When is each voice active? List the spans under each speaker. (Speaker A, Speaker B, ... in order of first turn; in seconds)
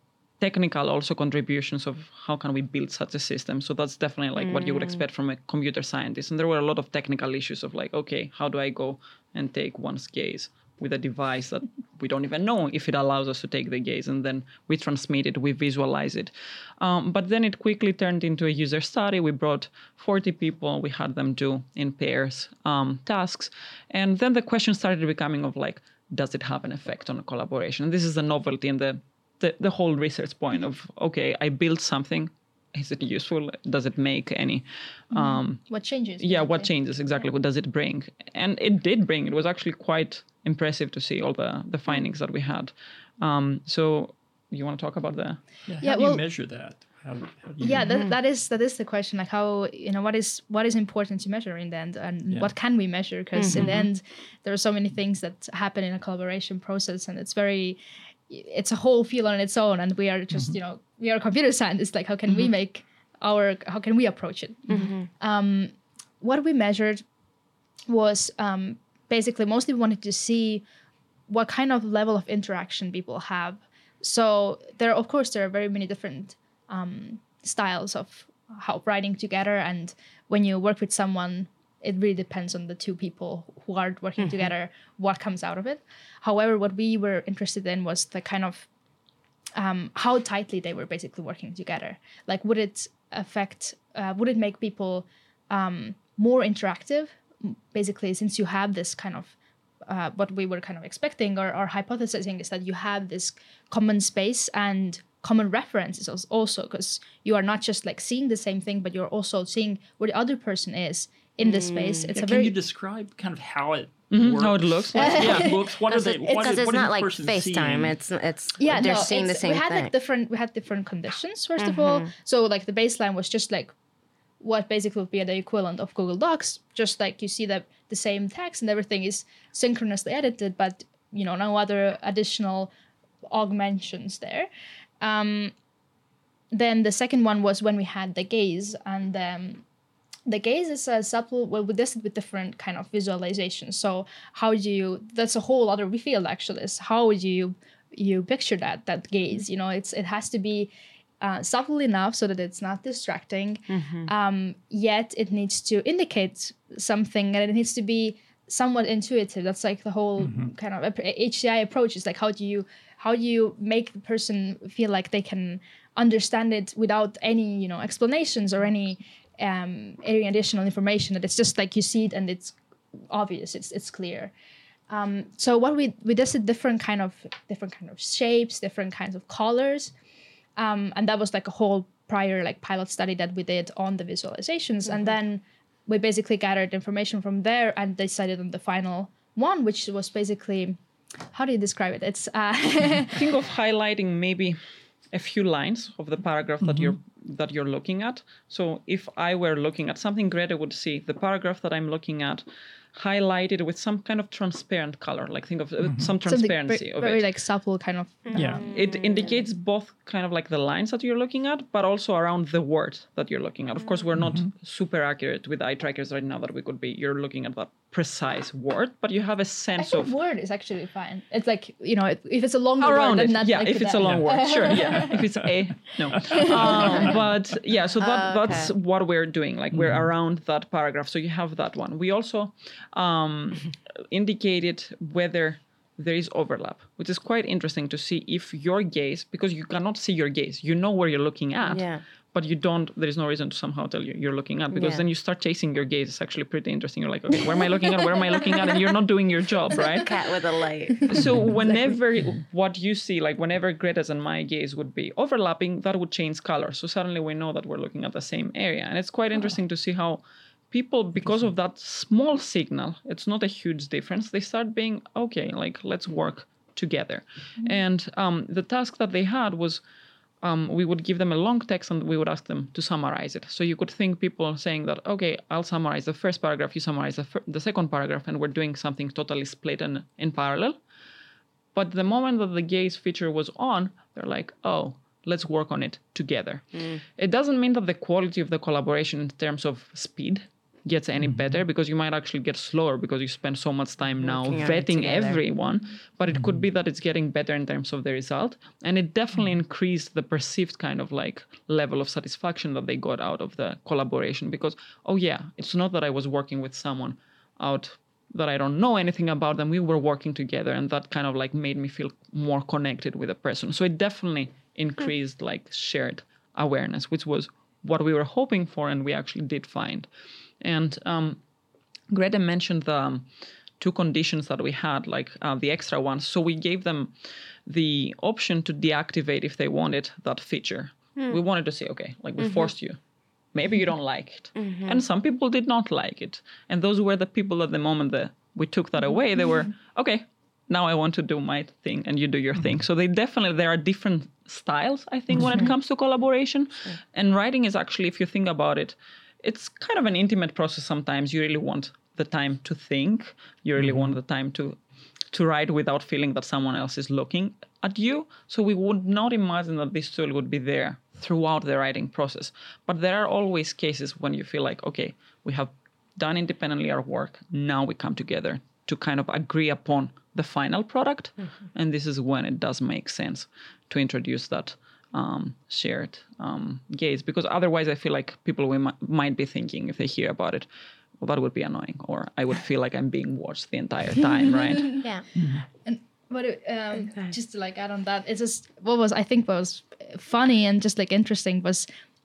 Speaker A: 0.4-45.5, 114.1-115.5, 193.1-194.6, 195.1-207.2, 208.7-220.2, 222.8-250.2, 251.1-269.8, 270.4-280.8, 281.8-320.1, 320.6-321.4, 322.1-323.3, 323.8-327.1, 327.7-333.0, 333.5-354.8, 355.3-380.7, 381.2-385.0
Speaker B: 4.4-5.0, 53.4-53.9, 64.7-65.1, 111.4-112.1, 115.9-119.9, 121.6-122.1, 153.7-154.1, 208.3-209.4, 213.8-214.1, 226.7-227.2, 228.0-228.7, 241.6-242.0, 244.7-245.1, 247.8-248.9, 249.7-251.2, 294.2-295.4, 332.4-332.7, 334.6-335.0, 387.0-387.4
Speaker C: 35.1-36.7, 45.8-46.2, 47.6-67.0, 67.9-70.7, 71.3-88.7, 89.6-112.5, 115.0-116.5, 118.6-123.7, 124.4-132.7, 133.3-134.5, 135.0-135.5, 136.5-139.6, 140.3-174.3, 174.9-179.9, 180.6-190.8, 191.3-193.2, 206.2-208.6, 219.8-225.2, 226.2-227.1, 251.0-251.9, 385.8-391.9
Speaker D: 45.7-48.0, 60.3-60.6, 112.2-118.0, 160.2-160.5, 196.6-197.0, 205.8-206.1, 208.3-208.7, 214.2-214.5, 224.0-224.4, 229.7-230.1, 291.2-291.6, 296.3-296.6, 353.8-354.1, 385.4-385.6